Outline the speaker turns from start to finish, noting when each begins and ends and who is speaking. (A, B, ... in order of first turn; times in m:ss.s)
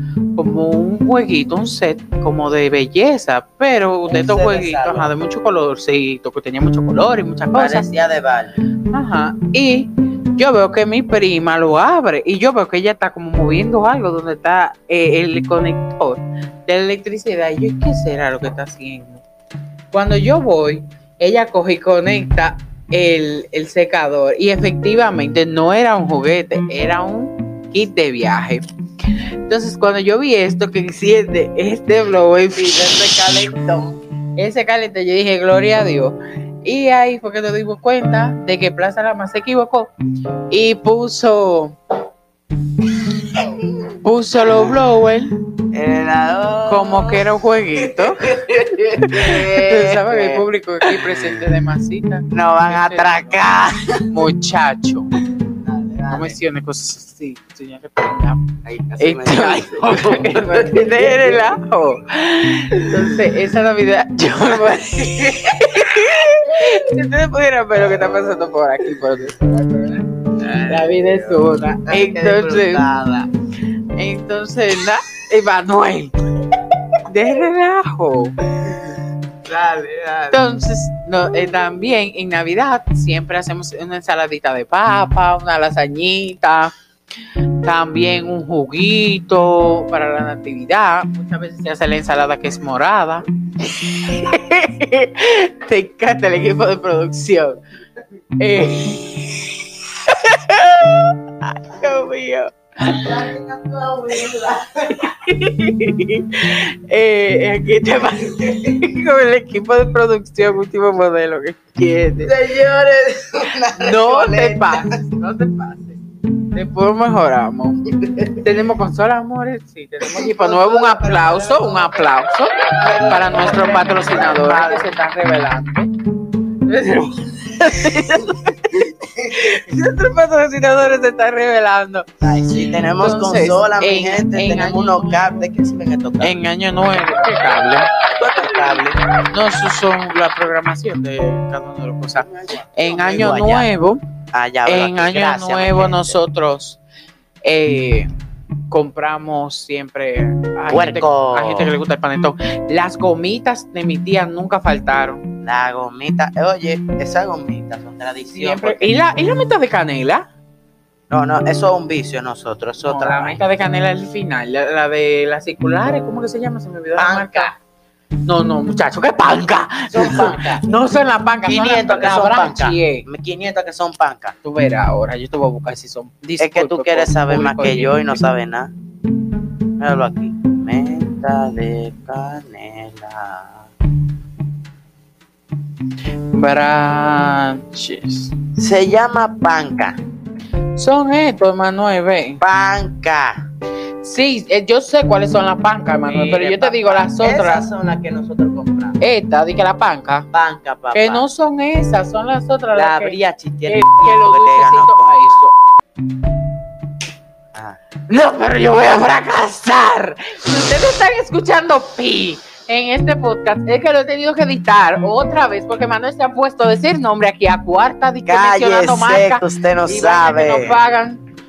0:00.4-0:07.9 A
0:04.0-0:05.1 B
0:07.5-0:08.6 B
0:08.9-0:19.2 A
0:19.9-0:28.6 A
0:29.5-0:33.0 A
0:32.5-0:34.0 B
0:34.4-0:39.9 A
0:40.5-0:41.8 A
0:43.3-0:43.6 B
0:44.0-0:45.3 A
0:45.7-0:47.2 B
0:46.7-0:53.4 A
0:47.8-0:51.4 B
0:52.3-0:54.0 B
0:54.1-0:55.1 A
0:55.6-0:56.4 B
0:56.1-0:58.4 A
0:58.6-1:01.5 B
0:59.0-1:10.1 A
1:05.1-1:05.8 B
1:10.4-1:13.3 B
1:10.7-1:12.8 A
1:14.0-1:16.1 A
1:17.0-1:18.4 A
1:18.6-1:20.4 B
1:20.3-1:26.7 A
1:27.6-1:37.6 A
1:38.4-1:43.0 A
1:42.8-1:45.1 B
1:45.0-1:52.3 A
1:52.2-1:55.0 B
1:53.8-1:56.0 A
1:56.5-1:57.8 A
1:58.0-1:58.4 B
1:58.4-2:02.5 A
2:00.0-2:02.1 B
2:02.7-2:04.9 B
2:03.1-2:05.9 A
2:06.6-2:12.1 A
2:07.6-2:09.6 B
2:12.2-2:16.4 B
2:13.0-2:15.2 A
2:16.2-2:17.9 A
2:18.2-2:19.0 B
2:19.3-2:24.0 A
2:22.2-2:23.7 B
2:24.3-2:26.2 B
2:24.6-2:26.8 A
2:27.4-2:28.1 A
2:28.7-2:35.2 A
2:30.7-2:31.7 B
2:35.4-2:39.0 B
2:38.3-2:40.3 A
2:41.1-2:43.4 B
2:42.8-2:47.5 A
2:47.0-2:47.6 B
2:48.2-2:53.0 A
2:49.9-2:50.7 B
2:51.4-2:54.4 B
2:54.4-2:58.2 A
2:56.4-2:58.7 B
2:59.8-3:03.7 B
3:06.3-3:08.3 A
3:08.6-3:10.0 B
3:10.8-3:12.4 A
3:12.4-3:13.5 B
3:14.0-3:17.6 A
3:16.0-3:19.0 B
3:19.0-3:20.3 A
3:20.3-3:21.2 B
3:20.9-3:23.2 A
3:22.7-3:25.4 B
3:23.7-3:25.5 A
3:28.1-3:41.2 A
3:38.2-3:40.8 B